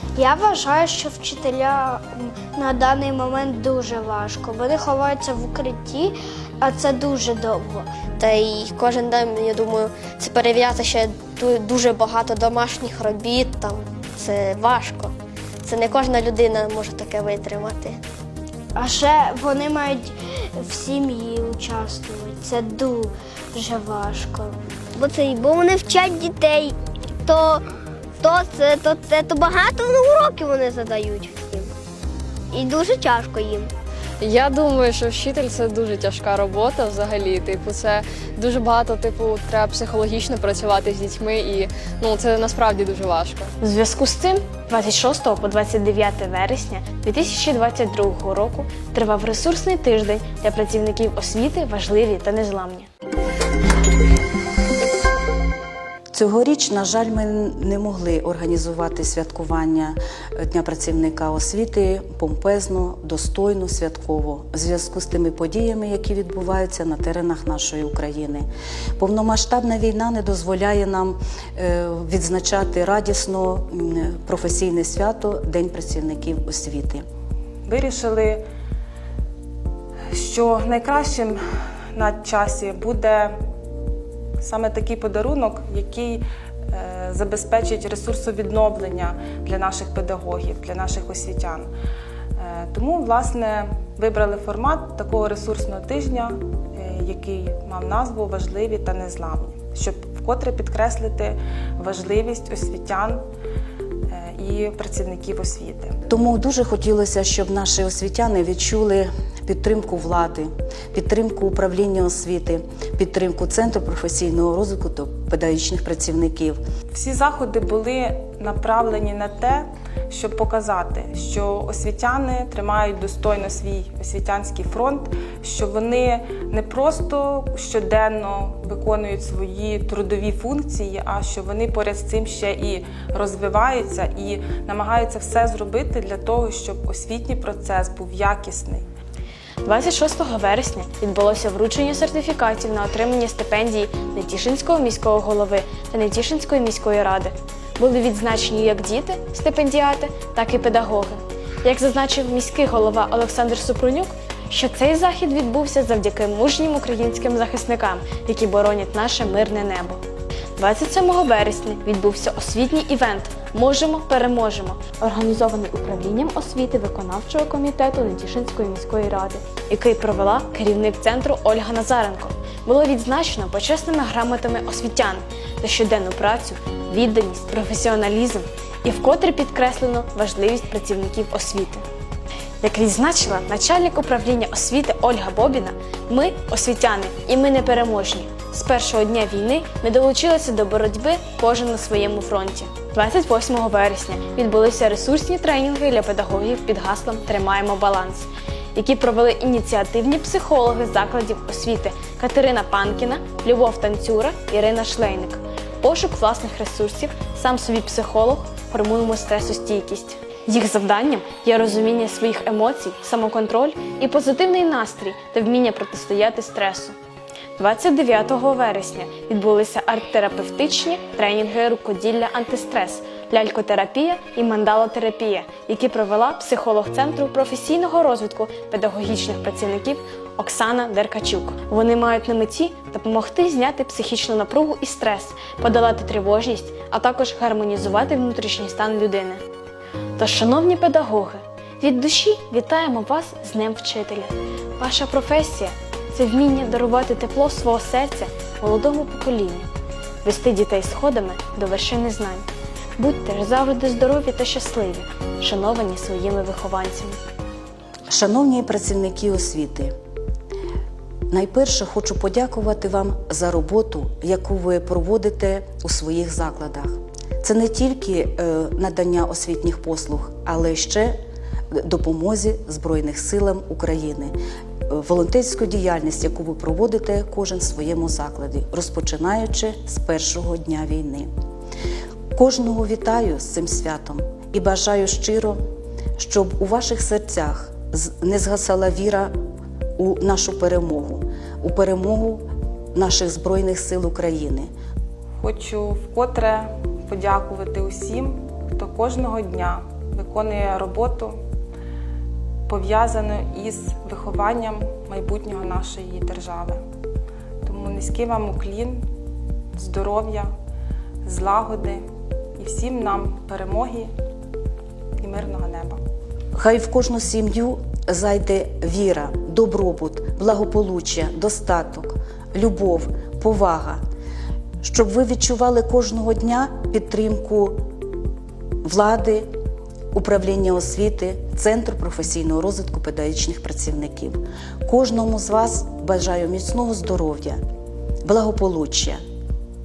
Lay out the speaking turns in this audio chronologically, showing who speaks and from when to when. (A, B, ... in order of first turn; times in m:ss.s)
0:00.2-0:07.9 A
0:08.2-0:18.0 B
0:18.7-0:24.6 A
0:24.9-0:26.7 C
0:27.2-0:27.6 C
0:28.2-0:31.7 C
0:32.5-0:33.7 C
0:34.2-0:43.5 D
0:43.6-0:52.9 E
0:56.1-1:17.0 F
1:17.6-1:18.4 G
1:20.1-1:21.4 G
1:21.9-1:23.3 G
1:24.4-1:31.7 G
1:32.4-1:43.2 G
1:44.1-1:45.9 G
1:46.1-1:56.6 F
1:56.9-2:18.8 G
2:19.6-2:40.0 E
2:40.6-3:01.8 E
3:02.6-3:37.0 E
3:37.6-3:59.4 E
4:00.2-4:09.7 E
4:10.2-4:12.4 E
4:13.0-4:17.2 E
4:18.1-4:19.9 F
4:21.3-4:31.2 F
4:31.7-4:34.3 F
4:34.9-4:41.3 F
4:42.3-4:45.6 F
4:46.2-4:49.3 F
4:50.0-4:54.7 F
4:55.4-5:01.4 G
5:02.7-5:06.8 G
5:07.6-5:09.0 G
5:09.8-5:10.5 G
5:11.2-5:12.0 G
5:12.6-5:14.1 G
5:15.2-5:16.0 G
5:16.5-5:24.0 F
5:24.8-5:27.8 F
5:28.8-5:29.5 F
5:30.1-5:37.6 F
5:38.2-5:39.2 F